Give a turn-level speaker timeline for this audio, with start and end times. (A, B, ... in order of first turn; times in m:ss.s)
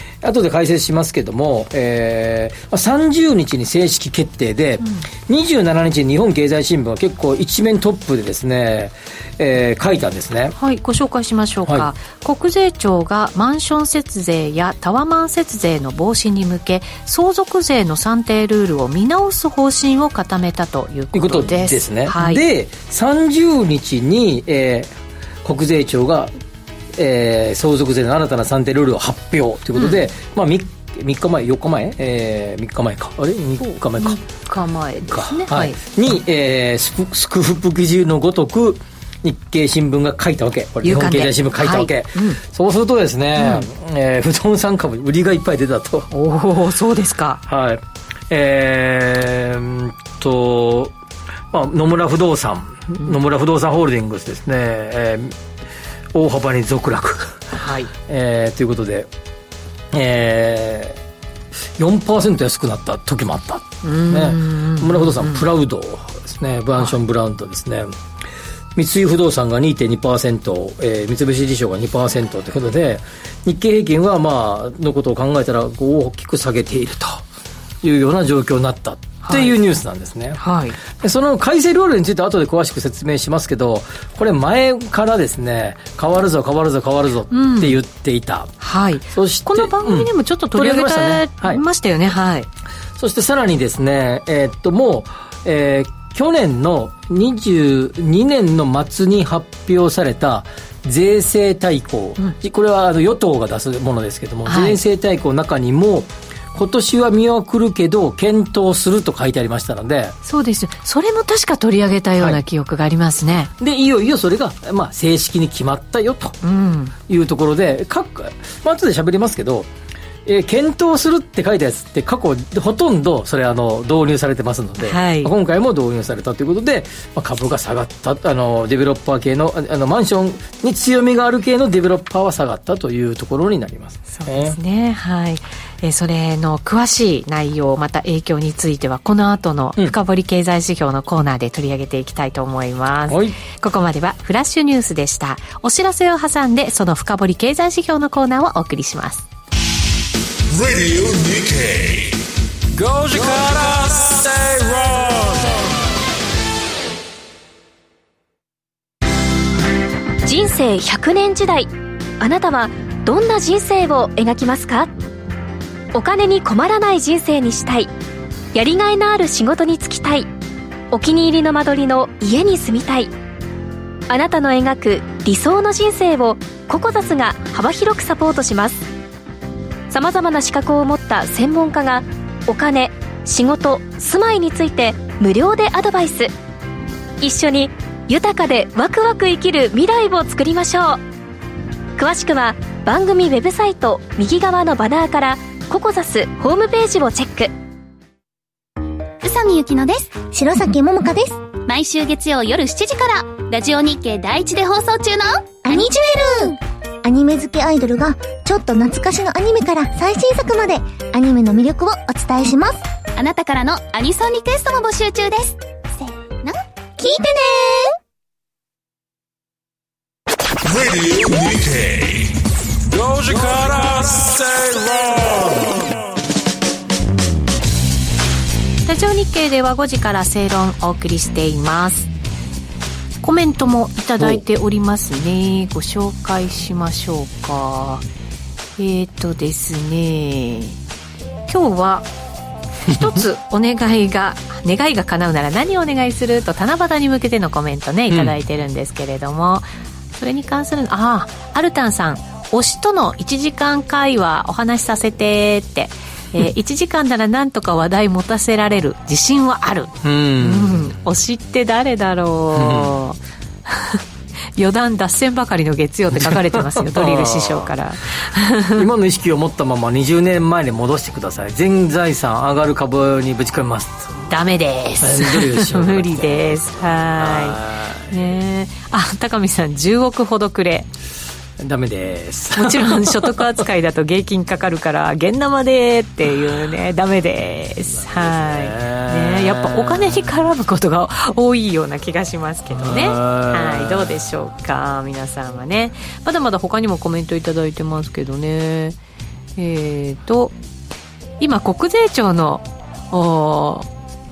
0:00.2-0:10.6 A
0:10.6-0:22.4 B
0:21.1-0:26.3 A
0:27.0-0:34.2 A
0:29.8-0:30.0 B
0:33.6-0:35.8 B
0:35.0-0:46.1 A
0:40.8-0:42.4 B
0:43.4-0:43.7 B
0:46.1-0:47.4 B
0:47.5-0:50.9 A
0:51.5-0:55.4 A
0:56.1-0:57.5 A
0:57.5-0:57.9 B
0:58.1-0:59.1 A
0:59.9-1:01.0 A
1:01.8-1:07.9 A
1:03.8-1:05.4 B
1:08.8-1:17.2 A
1:17.8-1:20.4 A
1:19.2-1:19.6 B
1:20.4-1:20.8 B
1:20.9-1:28.5 A
1:27.3-1:27.8 B
1:28.6-1:32.5 B
1:29.1-1:31.6 A
1:33.0-1:50.2 A
1:44.5-1:44.8 B
1:50.2-1:53.5 B
1:53.6-1:56.4 A
1:56.4-1:57.0 B
1:57.1-1:59.7 A
2:00.2-2:14.6 A
2:04.8-2:05.3 B
2:14.1-2:29.3 B
2:23.1-2:23.4 A
2:30.5-2:32.1 C
2:32.8-2:35.5 C
2:40.2-2:44.9 D
2:45.9-2:47.9 D
2:48.5-2:50.3 D
2:50.9-2:53.1 D
2:54.1-2:58.9 D
2:59.9-3:06.3 D
3:07.2-3:11.0 D
3:12.0-3:17.5 D
3:19.2-3:20.3 E
3:20.2-3:21.4 F
3:21.7-3:26.0 E
3:25.6-3:32.8 F
3:33.2-3:35.6 E
3:37.0-3:37.5 F
3:40.7-3:42.3 C
3:42.9-3:45.9 C
3:48.9-3:52.1 B
3:53.2-3:58.0 B
3:54.2-3:54.4 A
3:58.8-4:00.8 B
4:01.5-4:02.1 B
4:02.8-4:24.0 B
4:02.9-4:03.2 A
4:08.1-4:08.3 A
4:20.0-4:20.9 A
4:22.5-4:23.0 A
4:24.6-4:28.8 B
4:26.1-4:27.7 A
4:28.7-4:34.3 A
4:34.3-4:40.9 B
4:35.0-4:38.1 A
4:41.6-4:43.5 A
4:42.6-4:59.0 B
4:47.9-4:50.4 A
4:52.8-4:54.3 A
4:59.6-5:00.6 B
5:01.4-5:03.9 B